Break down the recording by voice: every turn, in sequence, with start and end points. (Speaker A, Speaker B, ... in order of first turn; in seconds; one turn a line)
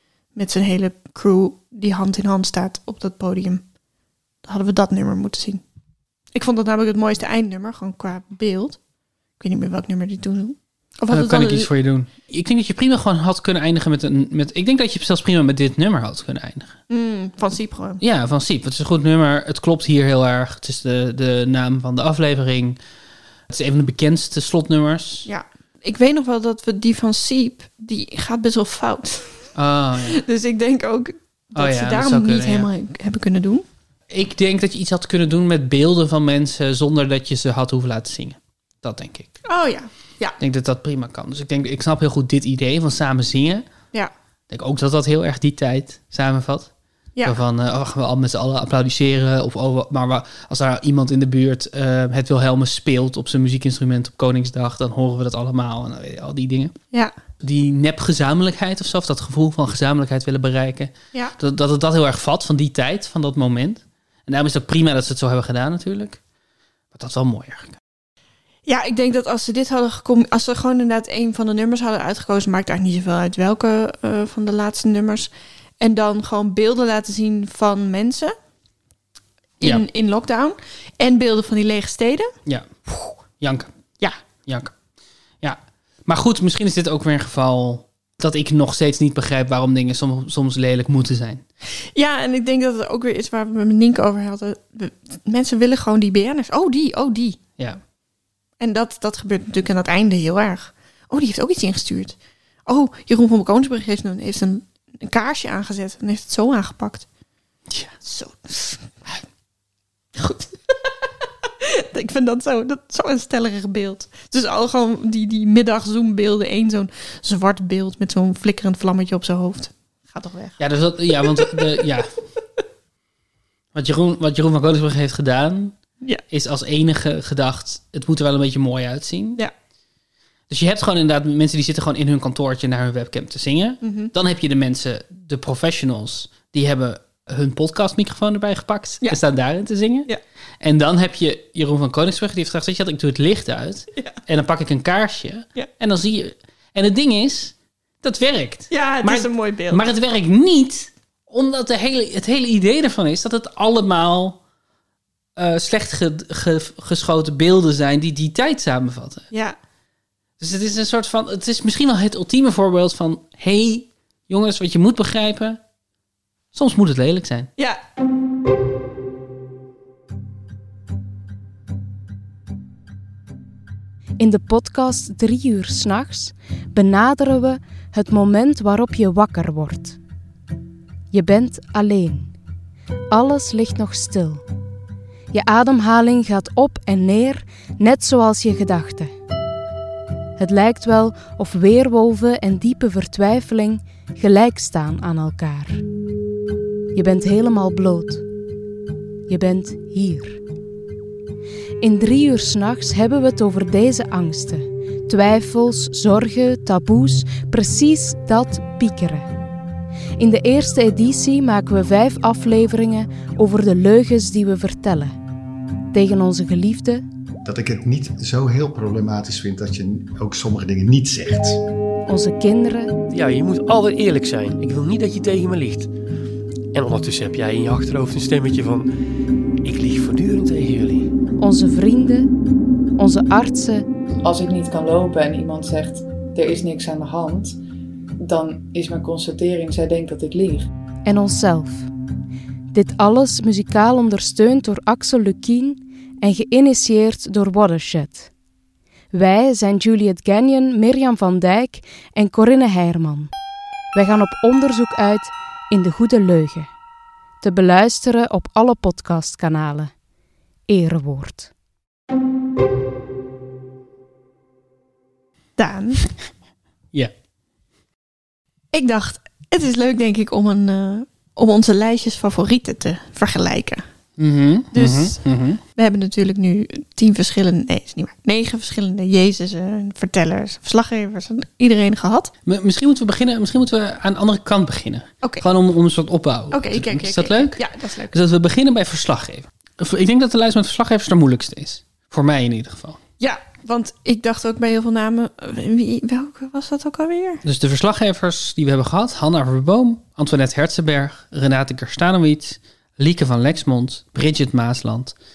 Speaker A: 0.3-3.6
Speaker A: 4.4-5.6
Speaker A: 6.3-8.8
Speaker A: 9.4-11.7
Speaker B: 11.1-16.8
Speaker A: 16.9-18.0
Speaker B: 18.0-22.8
Speaker B: 23.5-25.3
Speaker A: 25.2-29.5
Speaker B: 29.5-30.2
Speaker A: 30.1-33.6
Speaker B: 31.5-32.7
Speaker B: 34.1-39.3
Speaker A: 39.5-40.4
Speaker B: 40.4-43.6
Speaker B: 44.5-46.7
Speaker B: 47.2-56.7
Speaker B: 57.4-66.2
Speaker B: 66.9-67.8
Speaker A: 68.7-78.3
Speaker A: 79.6-82.3
Speaker A: 82.9-83.1
Speaker B: 83.4-83.7
Speaker B: 84.5-84.7
Speaker B: 85.4-91.4
Speaker A: 91.9-97.4
Speaker A: 98.6-107.0
Speaker A: 108.0-109.1
Speaker A: 110.1-110.9
Speaker A: 111.6-121.8
Speaker B: 120.6-122.2
Speaker B: 123.7-125.7
Speaker B: 126.3-129.4
Speaker B: 130.5-140.1
Speaker A: 133.8-134.1
Speaker B: 140.6-154.4
Speaker A: 148.7-149.8
Speaker B: 155.4-159.3
Speaker B: 160.4-165.6
Speaker B: 166.5-167.5
Speaker C: 174.2-180.0
Speaker C: 181.1-182.3
Speaker C: 183.1-184.4
Speaker C: 185.3-189.1
Speaker C: 190.4-195.8
Speaker C: 196.9-198.2
Speaker C: 199.3-200.4
Speaker C: 201.8-209.3
Speaker C: 210.2-215.1
Speaker C: 215.9-217.0
Speaker D: 217.4-221.6
Speaker C: 222.1-222.9
Speaker E: 223.1-225.9
Speaker E: 226.7-228.9
Speaker E: 229.6-231.1
Speaker C: 231.4-232.3
Speaker C: 233.0-233.8
Speaker F: 234.2-237.6
Speaker F: 238.2-240.7
Speaker C: 241.0-241.9
Speaker C: 242.7-248.3
Speaker C: 249.1-253.3
Speaker C: 253.9-256.7
Speaker C: 257.4-259.9
Speaker C: 260.7-261.5
Speaker A: 265.6-266.0
Speaker A: 268.7-273.8
Speaker B: 274.2-275.6
Speaker A: 274.7-282.3
Speaker B: 282.4-287.6
Speaker A: 286.5-288.1
Speaker B: 288.1-293.0
Speaker A: 293.2-297.4
Speaker B: 297.4-305.1